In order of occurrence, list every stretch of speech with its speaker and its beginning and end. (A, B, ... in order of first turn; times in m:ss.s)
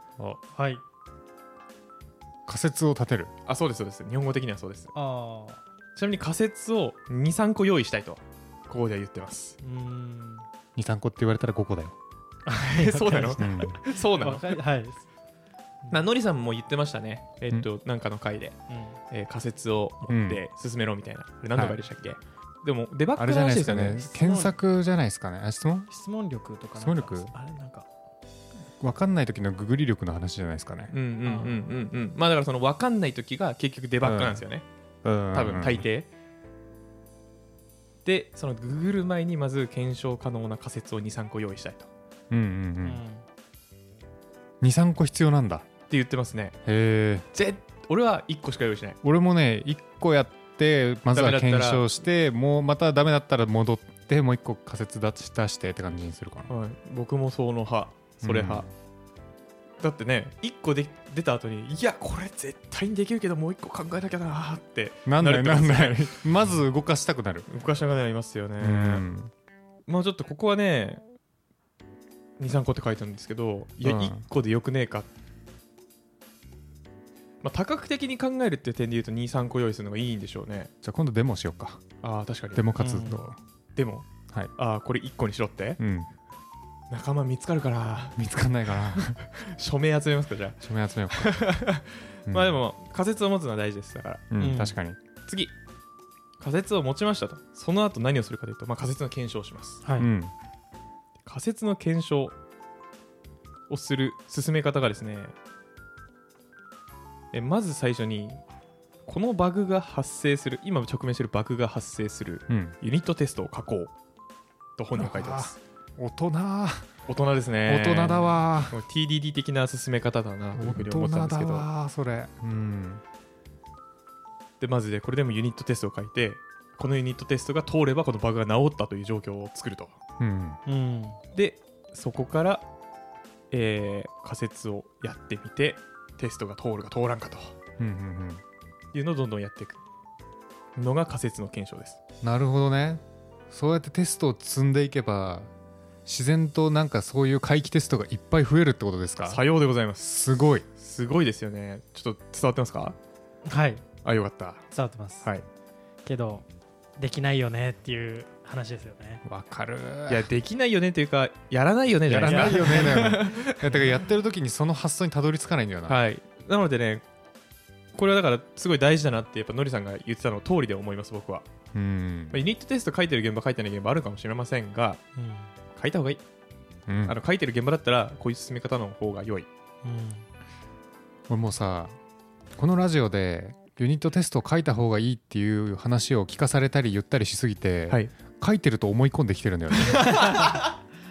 0:00.5-0:00.8 A
0:02.5-0:03.3 B
0:03.5-0:04.9 C
0:05.0-0:05.6 A
0:06.0-0:09.6 C
0:09.6-0:10.5 A
0:10.8-0:12.0 B
0:12.5-0:15.0 A
0:12.6-0:14.6 C
0:13.4-0:13.8 B
0:15.9-0:18.6 C
0:18.7-0:19.0 A
0:19.1-0:24.1 C
0:20.1-0:20.4 B
0:23.2-0:25.9 B
0:24.0-0:24.5 A
0:25.9-0:27.9 A
0:26.8-0:27.3 B
0:28.8-0:30.9 B
0:30.9-0:34.6 C
0:31.2-0:31.7 A
0:34.0-0:34.4 B
0:35.0-0:35.8 B
0:35.3-0:36.1 C
0:38.0-0:41.9 C
0:42.3-0:43.0 B
0:42.8-0:43.2 A
0:44.6-0:45.7 B
0:45.9-0:46.6 C
0:46.6-0:47.3 B
0:47.3-0:49.0 C
0:49.0-0:56.5 B
0:51.1-0:51.9 C
0:56.5-0:58.7 C
0:58.2-0:58.7 B
0:59.8-1:06.3 C
1:05.1-1:07.5 B
1:07.5-1:09.0 C
1:08.6-1:09.3 B
1:09.9-1:11.0 C
1:12.4-1:15.1 C
1:13.8-1:14.2 B
1:17.4-1:20.7 C
1:20.8-1:21.8 B
1:22.0-1:22.7 C
1:22.6-1:23.4 B
1:22.8-1:23.2 A
1:23.8-1:25.8 C
1:25.8-1:26.1 B
1:26.9-1:28.2 C
1:28.2-1:29.2 B
1:29.3-1:34.2 C
1:30.6-1:31.4 B
1:32.3-1:32.6 B
1:34.3-1:35.0 B
1:34.4-1:34.8 A
1:35.2-1:35.6 C
1:36.4-1:39.8 C
1:39.8-1:40.1 A
1:40.0-1:40.3 B
1:41.3-1:42.4 C
1:43.7-1:45.3 C
1:47.3-1:48.4 C
1:49.1-1:53.9 C
1:52.5-1:52.8 B
1:54.8-1:55.6 C
1:55.0-1:56.9 B
1:57.1-2:01.7 C
1:57.7-1:58.8 B
2:00.6-2:03.0 B
2:04.6-2:10.0 C
2:10.2-2:10.6 B
2:10.7-2:11.2 A
2:11.3-2:12.6 C
2:13.5-2:17.6 C
2:17.8-2:18.4 B
2:18.9-2:19.8 C
2:20.8-2:22.0 C
2:22.2-2:25.5 B
2:26.1-2:29.4 B
2:29.2-2:30.1 C
2:30.0-2:30.6 B
2:30.8-2:33.0 C
2:33.5-2:33.8 A
2:34.0-2:34.7 C
2:34.7-2:35.3 A
2:36.0-2:36.4 A
2:37.0-2:39.2 A
2:39.2-2:40.3 B
2:40.1-2:43.6 C
2:42.1-2:46.0 B
2:42.2-2:43.8 A
2:45.9-2:47.0 C
2:48.0-2:51.5 C
2:51.7-2:52.4 B
2:52.3-2:55.0 C
2:55.2-2:55.5 A
2:55.8-2:56.2 C
2:56.9-2:57.2 B
2:57.1-2:59.5 C
2:59.8-3:00.3 A
3:01.3-3:02.0 B
3:02.6-3:10.3 B
3:10.0-3:10.6 C